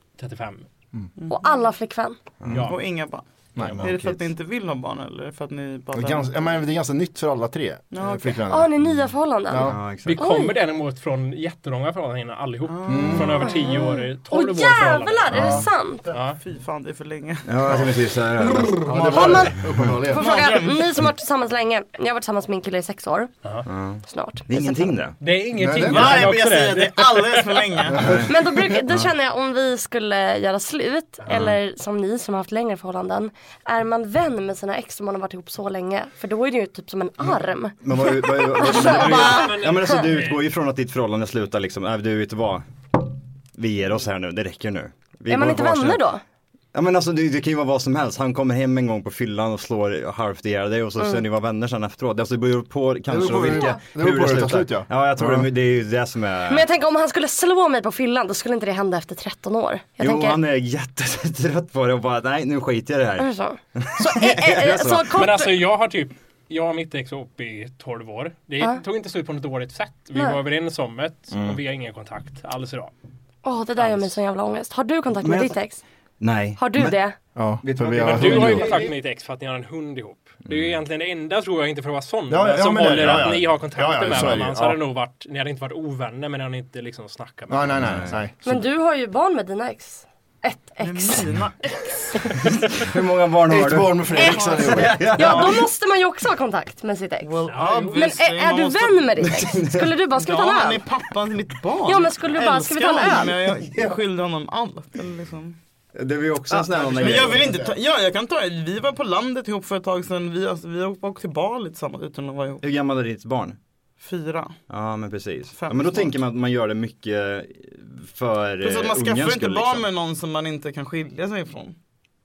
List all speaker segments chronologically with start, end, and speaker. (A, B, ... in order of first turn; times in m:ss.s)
0:00.2-0:00.6 A
0:01.3-0:02.2 B
0:02.4-0:02.7 C
0:02.5-0:02.8 A
0:02.6-0:03.2 D
0:03.6-0:03.9 E
0:03.6-0:04.2 C
0:03.8-0:06.6 D
0:05.9-0:08.8 E
0:07.9-0:08.4 D
0:08.5-0:10.5 B
0:09.5-0:09.8 E
0:09.6-0:10.2 C
0:10.0-0:15.6 A
0:12.6-0:13.5 D
0:12.9-0:13.4 E
0:13.4-0:16.1 B
0:15.3-0:15.6 E
0:16.1-0:16.4 A
0:16.4-0:17.8 D
0:17.4-0:19.9 C
0:18.4-0:20.3 E
0:19.1-0:23.3 B
0:20.1-0:20.9 D
0:23.6-0:25.2 C
0:24.0-0:24.9 B
0:25.2-0:27.7 A
0:25.6-0:26.4 E
0:25.8-0:28.0 D
0:27.9-0:28.8 E
0:28.0-0:28.3 C
0:28.2-0:39.5 B
0:31.3-0:31.6 C
0:37.8-0:42.7 C
0:38.7-0:40.4 A
0:43.5-0:46.0 C
0:45.3-0:46.2 B
0:46.7-0:56.6 C
0:53.1-0:55.5 E
0:56.5-1:00.4 B
1:00.0-1:05.1 C
1:03.2-1:05.6 B
1:05.1-1:12.9 A
1:11.3-1:11.6 C
1:13.4-1:15.8 B
1:13.8-1:14.2 A
1:15.2-1:15.6 C
1:16.2-1:17.0 C
1:16.6-1:17.2 B
1:17.4-1:18.9 E
1:17.6-1:18.8 C
1:18.0-1:27.9 A
1:20.4-1:20.8 C
1:22.3-1:24.8 E
1:27.5-1:28.6 E
1:27.8-1:28.2 C
1:28.4-1:31.3 B
1:30.8-1:32.3 D
1:32.7-1:35.6 C
1:33.5-1:35.5 E
1:34.2-1:37.4 B
1:34.2-1:35.2 D
1:37.2-1:39.2 D
1:37.5-1:37.9 A
1:37.9-1:40.8 B
1:39.2-1:39.9 C
1:40.1-1:45.6 D
1:41.8-1:43.3 B
1:45.9-1:47.6 C
1:46.5-1:52.6 D
1:46.7-1:47.7 E
1:52.6-1:53.6 C
1:54.0-1:54.6 D
1:54.7-1:59.8 C
1:55.6-1:56.1 D
1:58.6-2:01.8 D